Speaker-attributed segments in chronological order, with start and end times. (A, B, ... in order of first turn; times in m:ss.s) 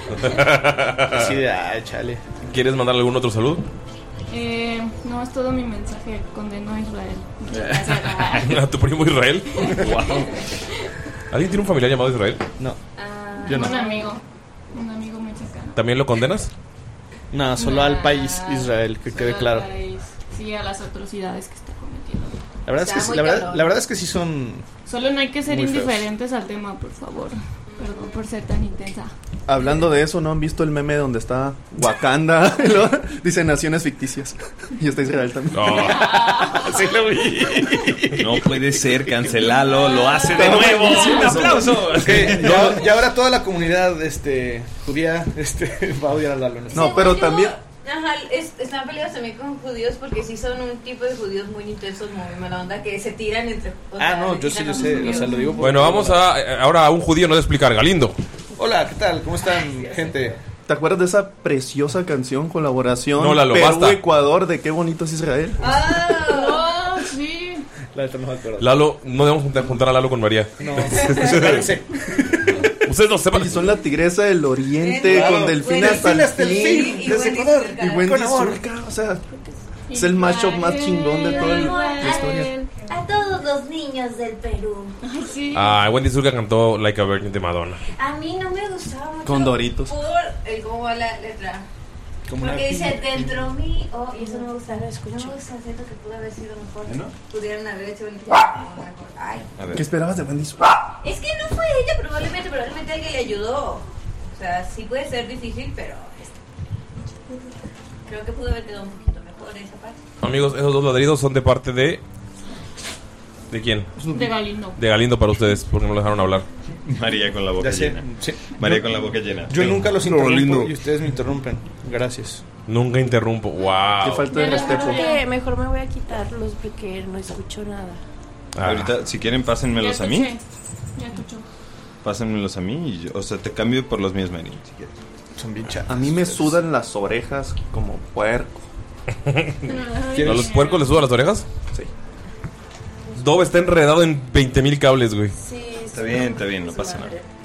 0:00.2-0:01.4 A
0:01.1-0:02.2 B
0:02.4-0:03.6 A
0:04.3-0:08.6 C
0:07.5-0:08.5 D
0:08.4-0:09.7 A
0:09.6-0:10.2 C
0:09.8-0:10.5 D
0:11.3-0:12.4 A
0:13.0-0:14.2 E
0:13.4-0:13.8 B
0:13.5-0:15.8 C
0:15.8-0:16.5 A
0:17.3-0:19.7 B
0:17.6-0:22.4 C
0:22.7-0:24.7 B
0:22.8-0:23.8 E
0:24.9-0:29.1 C
0:25.5-0:26.1 B
0:27.7-0:28.3 E
0:29.5-0:36.1 F
0:35.5-0:36.1 A
0:36.1-0:36.7 C
0:36.1-0:39.1 B
0:38.2-0:42.8 D
0:39.6-0:41.3 E
0:40.3-0:42.1 F
0:40.3-0:47.2 B
0:46.7-0:55.5 E
0:46.7-0:47.6 F
0:54.0-0:56.3 B
0:54.8-0:55.6 C
0:55.6-0:58.2 A
0:58.6-1:00.4 B
1:00.7-1:05.7 F
1:03.2-1:04.0 A
1:05.6-1:06.8 E
1:06.2-1:07.7 C
1:07.9-1:08.7 B
1:08.6-1:11.7 A
1:10.6-1:12.7 B
1:12.8-1:13.7 A
1:13.3-1:17.1 F
1:14.8-1:18.1 E
1:15.0-1:18.6 B
1:17.8-1:19.3 F
1:19.9-1:22.8 C
1:19.9-1:22.5 F
1:21.2-1:25.0 E
1:25.0-1:25.8 C
1:25.5-1:27.8 A
1:27.9-1:31.7 E
1:29.2-1:30.0 F
1:32.3-1:33.5 B
1:32.4-1:39.5 E
1:34.1-1:35.4 G
1:36.9-1:37.1 D
1:39.6-1:39.8 D
1:39.7-1:40.7 F
1:41.0-1:46.4 E
1:48.1-1:50.0 E
1:50.2-1:52.0 A
1:53.5-1:53.9 A
1:54.0-1:54.3 B
1:54.1-1:54.8 C
1:54.8-1:56.5 A
1:56.8-1:59.8 D
1:57.6-2:02.4 B
1:59.6-2:00.7 A
2:02.7-2:04.3 A
2:04.0-2:05.1 F
2:04.3-2:05.2 C
2:04.4-2:08.0 G
2:08.6-2:08.9 A
2:08.6-2:10.3 D
2:09.7-2:10.4 C
2:11.0-2:11.5 C
2:12.0-2:15.0 D
2:15.4-2:16.6 B
2:15.9-2:18.6 F
2:19.3-2:21.4 A
2:19.6-2:21.1 C
2:20.2-2:20.5 B
2:23.2-2:25.4 A
2:25.4-2:27.3 G
2:25.9-2:27.2 D